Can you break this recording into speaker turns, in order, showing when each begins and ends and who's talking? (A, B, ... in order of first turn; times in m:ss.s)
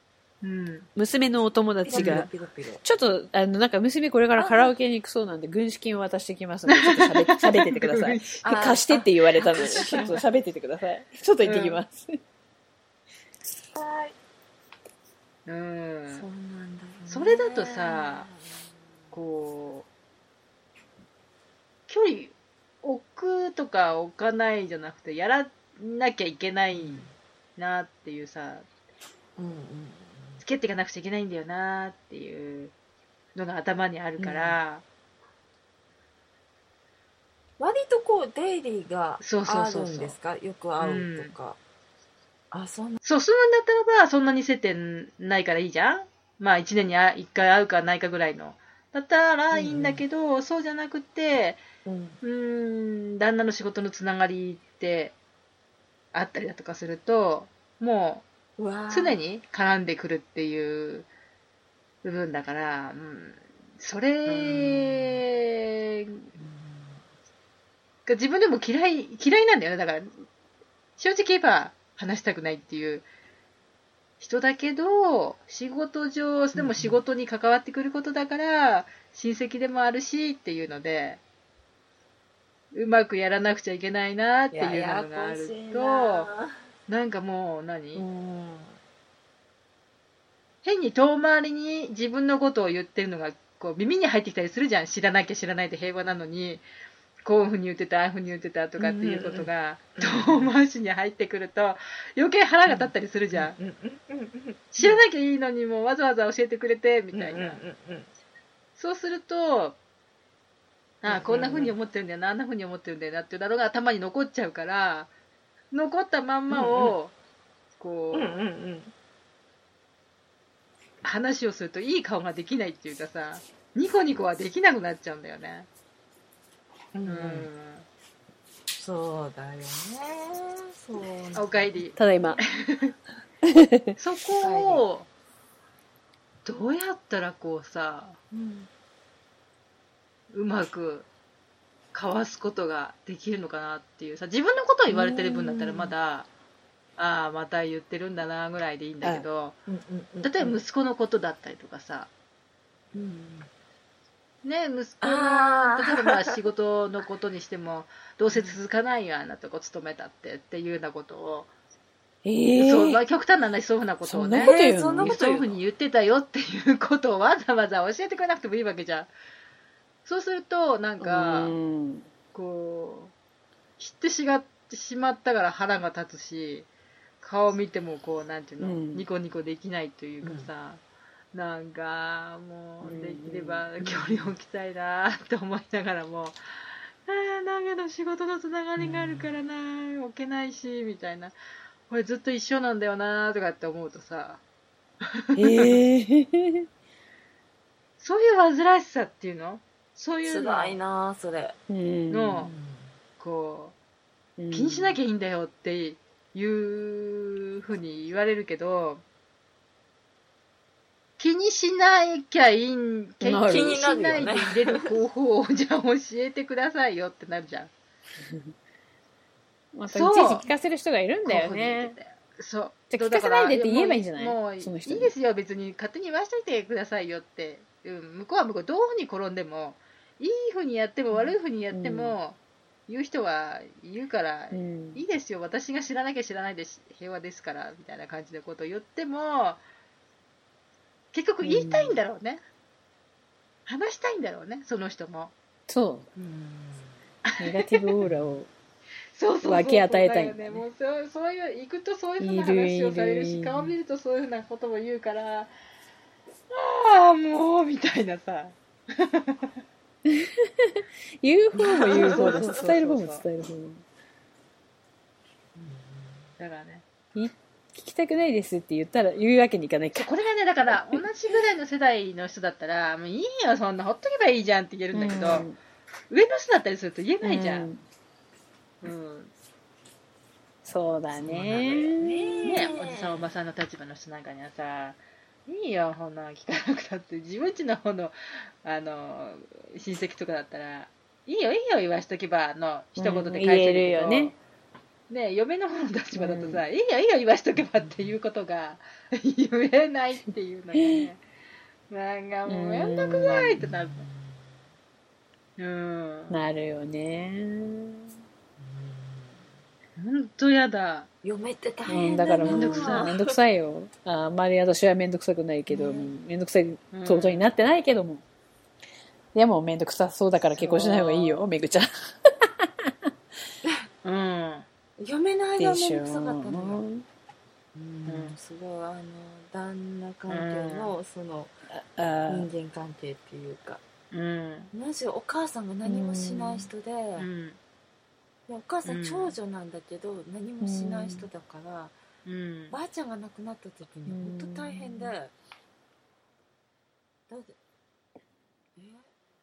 0:00.4-0:00.9 A
0:01.0-0:02.3 B
0:01.9-0:02.8 C
0:01.9-0:02.3 A
0:02.8-0:12.1 B
0:04.4-0:04.8 C
0:06.7-0:08.6 A
0:08.4-0:10.2 C
0:11.4-0:11.8 A
0:13.7-0:14.2 C
0:15.5-0:16.3 A
0:16.1-0:18.4 C
0:17.1-0:18.3 A
0:19.1-0:19.9 A
0:21.9-0:28.6 A
0:26.7-0:27.2 C
0:29.4-0:30.4 C
0:30.4-0:32.7 A
0:33.4-0:34.8 A
0:34.2-0:34.6 C
0:37.6-0:41.6 C
0:39.2-0:40.2 A
0:40.8-0:41.3 A
0:42.5-0:43.0 C
0:43.0-0:51.6 A
0:49.5-0:50.0 C
0:51.8-0:52.2 C
0:52.2-0:55.2 A
0:56.1-0:58.2 A
0:58.6-0:59.2 C
0:58.9-1:01.1 A
1:02.0-1:06.2 A
1:04.3-1:05.2 C
1:06.4-1:07.0 C
1:08.1-1:10.1 A
1:11.0-1:13.1 A
1:14.2-1:21.2 A
1:16.5-1:17.0 C
1:22.7-1:26.3 A
1:24.5-1:26.6 C
1:26.9-1:28.1 A
1:28.0-1:28.8 C
1:30.6-1:36.6 A
1:37.2-1:43.6 A
1:38.8-1:40.5 C
1:42.7-1:45.0 C
1:44.7-1:47.6 A
1:47.1-1:48.1 C
1:48.8-1:49.8 A
1:51.0-1:55.1 A
1:51.1-1:51.8 C
1:55.7-1:57.1 A
1:56.5-1:57.0 C
1:57.8-1:58.3 A
1:58.1-1:58.9 C
2:01.0-2:05.7 A
2:06.9-2:07.5 C
2:07.0-2:07.8 A
2:08.8-2:12.4 C
2:11.3-2:13.0 A
2:12.0-2:12.4 B
2:13.5-2:13.9 B
2:14.0-2:15.1 A
2:14.4-2:14.8 C
2:16.4-2:18.2 A
2:18.3-2:18.7 C
2:20.3-2:21.1 A
2:21.9-2:26.3 A
2:24.9-2:25.9 C
2:27.0-2:29.6 A
2:29.0-2:29.3 B
2:29.7-2:30.6 C
2:30.2-2:32.1 A
2:32.9-2:33.5 C
2:34.4-2:41.5 A
2:35.0-2:36.3 C
2:42.2-2:43.0 B
2:42.6-2:49.1 A
2:44.1-2:45.1 B
2:44.4-2:45.6 C
2:50.0-2:51.5 A
2:51.0-2:52.1 B
2:52.3-2:53.1 A
2:53.8-2:56.7 A
2:57.2-3:00.8 A
2:58.6-2:59.1 B
3:00.2-3:00.5 C
3:01.3-3:06.4 A
3:02.8-3:03.7 B
3:03.8-3:04.3 C
3:07.1-3:11.4 A
3:08.8-3:09.4 C
3:11.9-3:14.4 A
3:15.3-3:15.8 A
3:15.4-3:16.6 B
3:18.0-3:20.8 A
3:20.2-3:21.6 C
3:21.7-3:22.4 B
3:22.1-3:22.5 A
3:22.4-3:22.9 C
3:23.2-3:23.8 A
3:24.4-3:25.0 B
3:24.5-3:29.0 A
3:31.2-3:37.7 A
3:33.2-3:34.3 B
3:33.3-3:34.9 C
3:39.8-3:42.0 B
3:39.9-3:40.5 A
3:41.2-3:59.6 A
3:42.9-3:45.1 B
3:51.7-3:52.2 B
3:54.5-3:55.0 B
4:01.1-4:02.4 A
4:01.4-4:01.9 B
4:01.6-4:02.0 C
4:03.7-4:05.3 A
4:05.7-4:06.1 B
4:06.2-4:07.0 C
4:07.3-4:08.0 A
4:07.4-4:08.5 B
4:09.2-4:15.5 A
4:09.4-4:10.6 B
4:12.2-4:13.7 B
4:16.5-4:19.5 A
4:20.1-4:23.8 B
4:21.6-4:22.6 C
4:21.7-4:23.2 A
4:25.6-4:26.3 C
4:26.4-4:26.8 A
4:27.2-4:30.1 B
4:29.9-4:35.5 A
4:34.9-4:35.6 B
4:36.1-4:37.7 A
4:37.2-4:37.8 B
4:38.8-4:39.3 A
4:40.6-4:42.7 B
4:41.1-4:43.3 C
4:42.4-4:54.4 A
4:53.0-4:54.3 B
4:55.1-5:01.2 A
4:56.2-4:56.6 B
4:57.6-4:58.1 C
5:00.8-5:01.1 B
5:01.9-5:04.1 A
5:02.5-5:03.5 B
5:03.6-5:04.2 C
5:05.6-5:06.4 A
5:06.3-5:08.1 B
5:08.6-5:09.4 C
5:10.0-5:11.1 A
5:11.2-5:13.4 C
5:11.9-5:18.2 B
5:12.4-5:13.1 A
5:15.7-5:16.1 C
5:16.9-5:17.5 A
5:19.4-5:21.9 B
5:20.4-5:21.4 C
5:24.0-5:24.7 A
5:25.0-5:26.8 C
5:25.6-5:27.1 B
5:27.8-5:31.5 C
5:28.1-5:28.4 A
5:30.3-5:31.0 A
5:31.7-5:32.5 B
5:32.3-5:33.8 C
5:34.1-5:34.7 A
5:34.7-5:37.3 C
5:35.8-5:36.7 B
5:37.2-5:37.6 A
5:38.5-5:42.0 C
5:38.8-5:39.4 A
5:40.6-5:41.3 B
5:42.2-5:42.8 A
5:42.7-5:45.3 C
5:44.1-5:45.2 B
5:47.3-5:47.6 C
5:48.8-5:49.1 C